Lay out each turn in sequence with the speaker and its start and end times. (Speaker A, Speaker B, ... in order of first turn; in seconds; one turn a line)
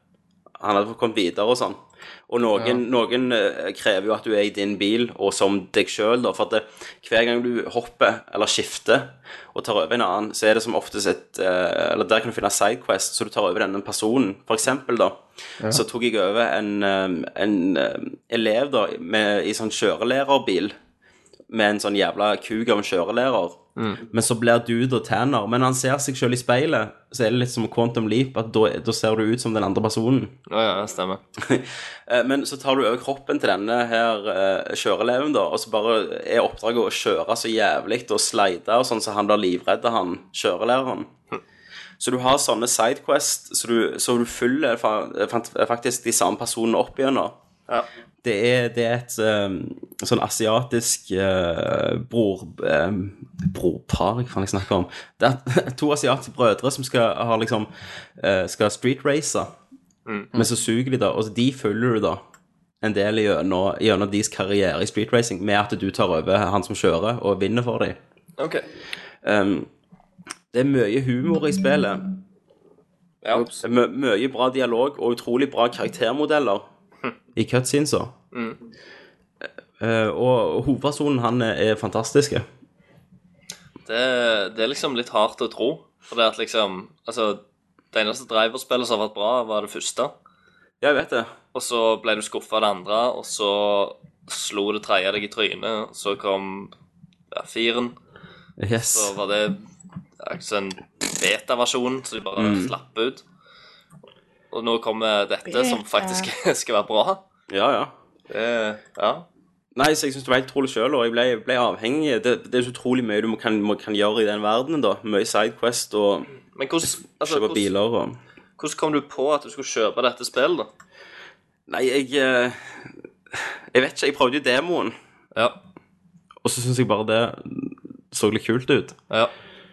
Speaker A: 0.6-1.8
Speaker A: 2.3-20.8
Speaker A: 21.5-30.4
Speaker B: 23.8-24.0
Speaker B: 30.5-31.2
Speaker A: 31.4-41.1
Speaker A: 42.0-47.4
Speaker A: 48.2-59.5
Speaker B: 60.1-60.3
Speaker A: 60.4-62.2
Speaker A: 62.8-68.0
Speaker B: 68.4-68.7
Speaker A: 69.2-69.7
Speaker A: 70.5-72.1
Speaker B: 73.2-73.5
Speaker A: 73.6-76.7
Speaker A: 77.4-78.1
Speaker B: 78.3-78.6
Speaker A: 79.8-82.5
Speaker B: 83.9-87.4
Speaker B: 87.9-90.1
Speaker A: 90.8-91.3
Speaker B: 91.5-96.7
Speaker B: 97.3-98.0
Speaker A: 98.6-99.1
Speaker B: 98.9-99.6
Speaker B: 100.2-103.2
Speaker A: 102.4-102.7
Speaker B: 104.5-107.2
Speaker A: 107.5-107.9
Speaker B: 108.3-109.2
Speaker A: 109.8-116.3
Speaker B: 116.6-117.7
Speaker A: 117.2-118.2
Speaker B: 118.6-120.7
Speaker A: 121.7-125.0
Speaker A: 126.4-129.0